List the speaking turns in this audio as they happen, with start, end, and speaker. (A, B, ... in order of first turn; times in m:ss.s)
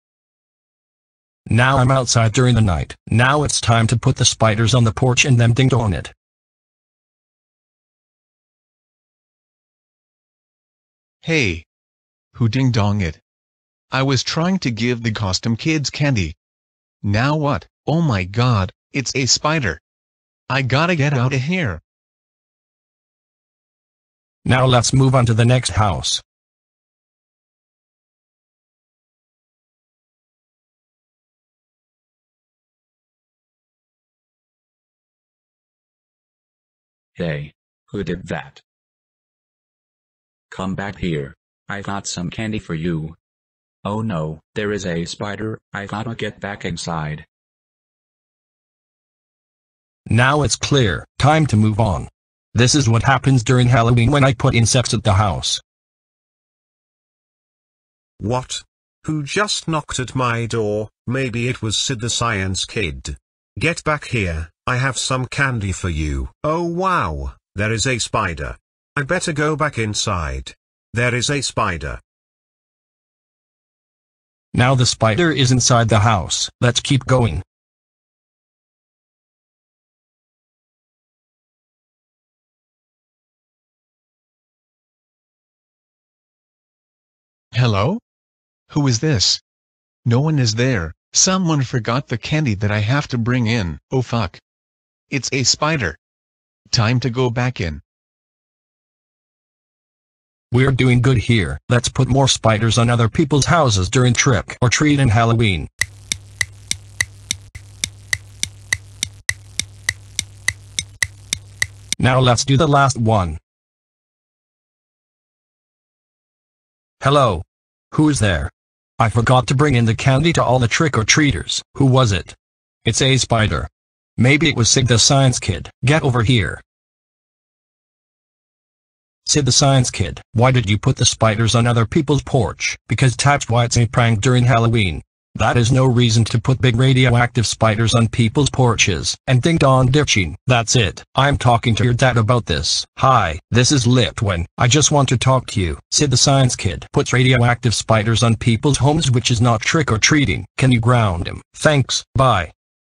0:01.5-0:06.1 A
0:11.2-0:11.6 B
0:12.3-0:13.2 B
0:13.9-0:16.4 B
0:17.0-0:19.8 B
0:20.5-0:21.8 B
0:24.4-0:26.2 A
0:37.2-0:38.6 C
0:40.5-0:43.2 C
0:43.8-0:47.2 C
0:50.1-0:55.6 A
0:58.2-1:12.0 D
1:14.5-1:17.4 A
1:27.5-1:28.0 B
1:28.7-1:29.4 B
1:30.0-1:34.4 B
1:35.1-1:36.0 B
1:36.7-1:37.8 B
1:40.5-1:45.7 A
1:52.0-1:53.4 A
1:57.0-2:06.6 A
2:09.2-2:32.5 A